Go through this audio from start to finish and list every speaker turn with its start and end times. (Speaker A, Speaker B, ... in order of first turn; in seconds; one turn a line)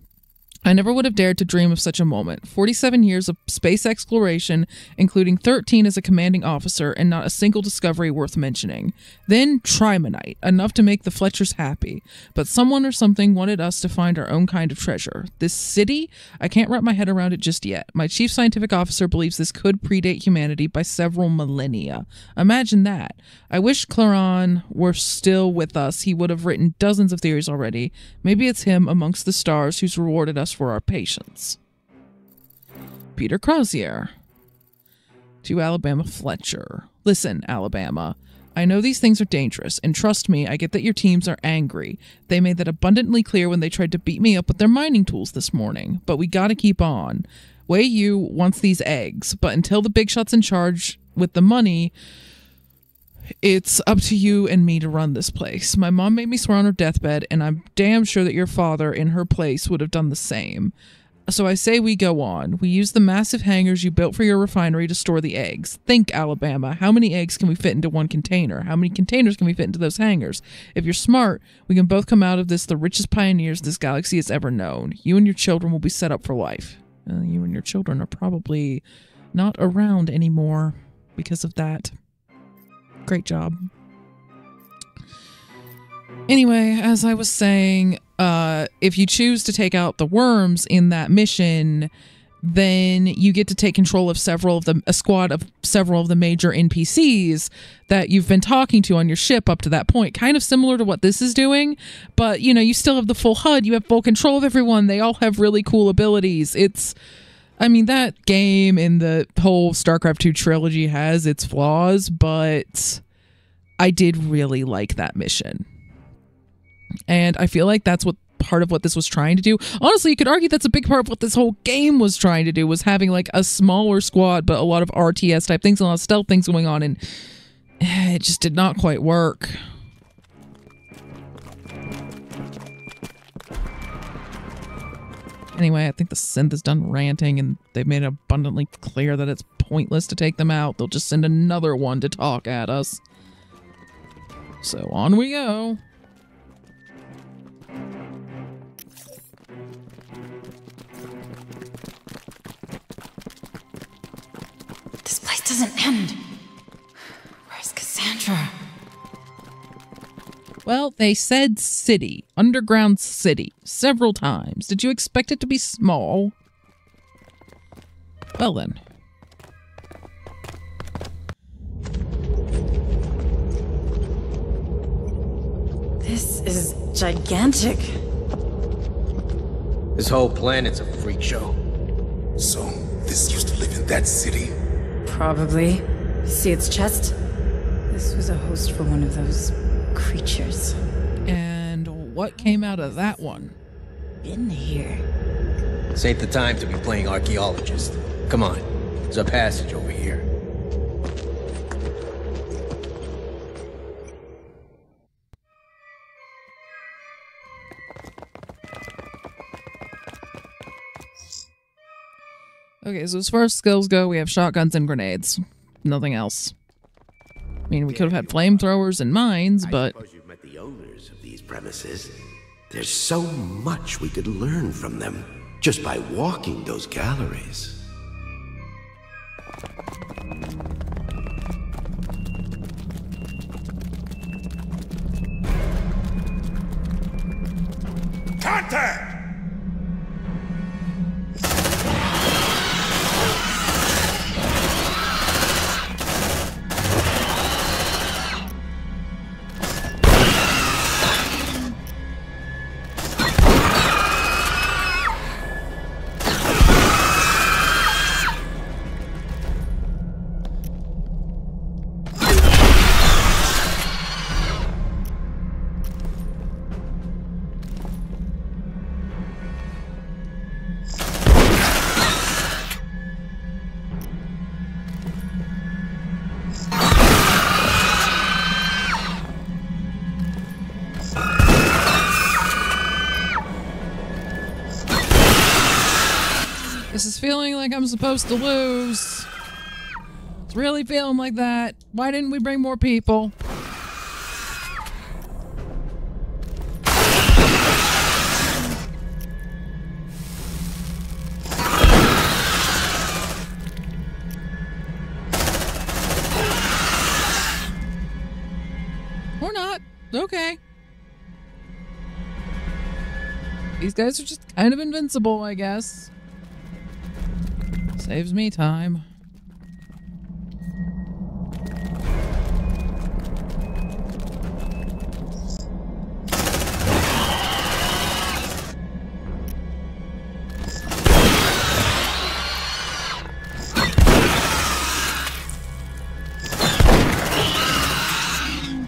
Speaker A: 0.6-31.6
Speaker A: 33.1-34.1
Speaker A: 35.4-51.9
Speaker A: 53.4-60.7
Speaker A: 61.3-81.9
Speaker A: 83.0-83.7
Speaker A: 86.3-91.9
Speaker A: 92.4-106.9
Speaker A: 107.6-113.0
Speaker A: 113.8-115.7
Speaker A: 117.1-127.0
Speaker A: 127.8-129.6
Speaker A: 135.6-143.0
Speaker A: 144.6-145.8
Speaker B: 155.0-156.2
Speaker B: 157.5-158.5
Speaker A: 160.6-166.3
Speaker A: 168.4-168.8
Speaker B: 176.0-177.9
Speaker C: 179.9-181.5
Speaker D: 182.4-184.5
Speaker B: 185.1-187.2
Speaker B: 187.9-190.8
Speaker A: 191.2-193.6
Speaker B: 194.2-195.1
Speaker C: 195.9-200.2
Speaker A: 212.8-216.5
Speaker A: 217.7-219.9
Speaker E: 217.9-218.7
Speaker E: 219.6-222.2
Speaker E: 222.7-227.8
Speaker D: 238.4-239.1
Speaker A: 286.9-289.3
Speaker A: 290.5-293.3
Speaker A: 309.4-310.6
Speaker A: 313.8-316.1
Speaker A: 318.0-319.0